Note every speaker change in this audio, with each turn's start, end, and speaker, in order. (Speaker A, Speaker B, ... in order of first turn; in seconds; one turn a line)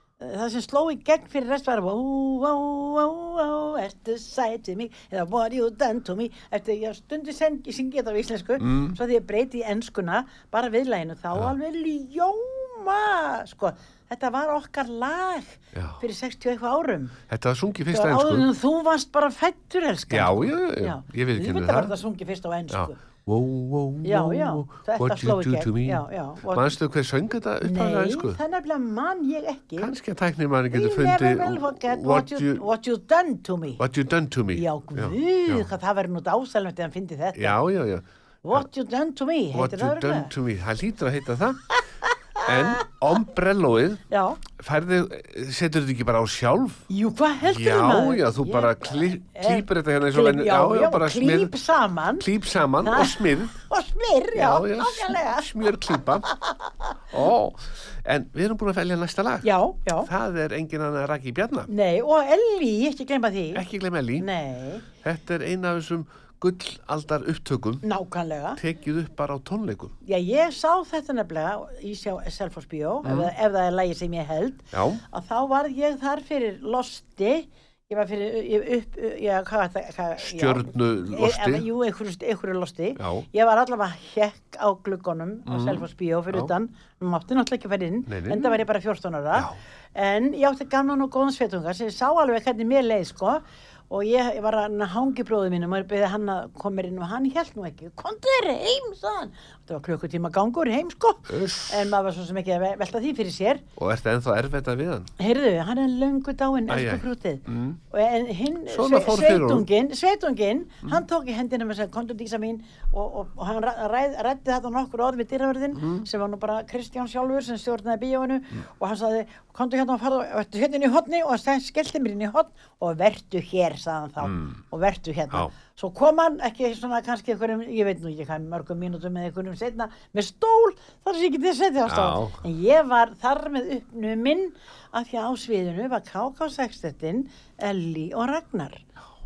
Speaker A: 0.2-17.1
Speaker B: 8.6-9.0
Speaker B: 15.7-16.0
Speaker B: 17.3-18.5
Speaker A: 17.9-23.0
Speaker B: 20.1-21.9
Speaker B: 22.7-28.4
Speaker A: 24.0-26.7
Speaker A: 27.6-29.9
Speaker B: 29.8-32.6
Speaker A: 30.7-33.8
Speaker B: 33.8-35.7
Speaker A: 34.5-37.6
Speaker B: 37.3-38.6
Speaker A: 38.4-40.3
Speaker B: 39.5-41.8
Speaker B: 42.4-46.8
Speaker A: 44.1-44.4
Speaker A: 46.9-52.2
Speaker B: 47.4-51.5
Speaker B: 52.2-53.5
Speaker A: 52.8-55.5
Speaker B: 54.3-56.3
Speaker B: 57.1-61.7
Speaker A: 59.4-60.1
Speaker A: 61.7-63.6
Speaker B: 63.5-64.3
Speaker A: 64.2-64.8
Speaker B: 65.0-67.8
Speaker A: 67.8-68.6
Speaker B: 68.6-69.9
Speaker A: 70.0-103.6
Speaker B: 73.0-73.3
Speaker B: 74.7-75.0
Speaker B: 80.2-81.7
Speaker B: 83.0-83.2
Speaker B: 85.5-86.5
Speaker B: 88.1-88.6
Speaker B: 101.3-101.9
Speaker B: 103.8-105.1
Speaker A: 105.2-138.8
Speaker B: 106.7-107.8
Speaker B: 108.7-109.7
Speaker B: 124.2-124.5
Speaker B: 131.9-132.4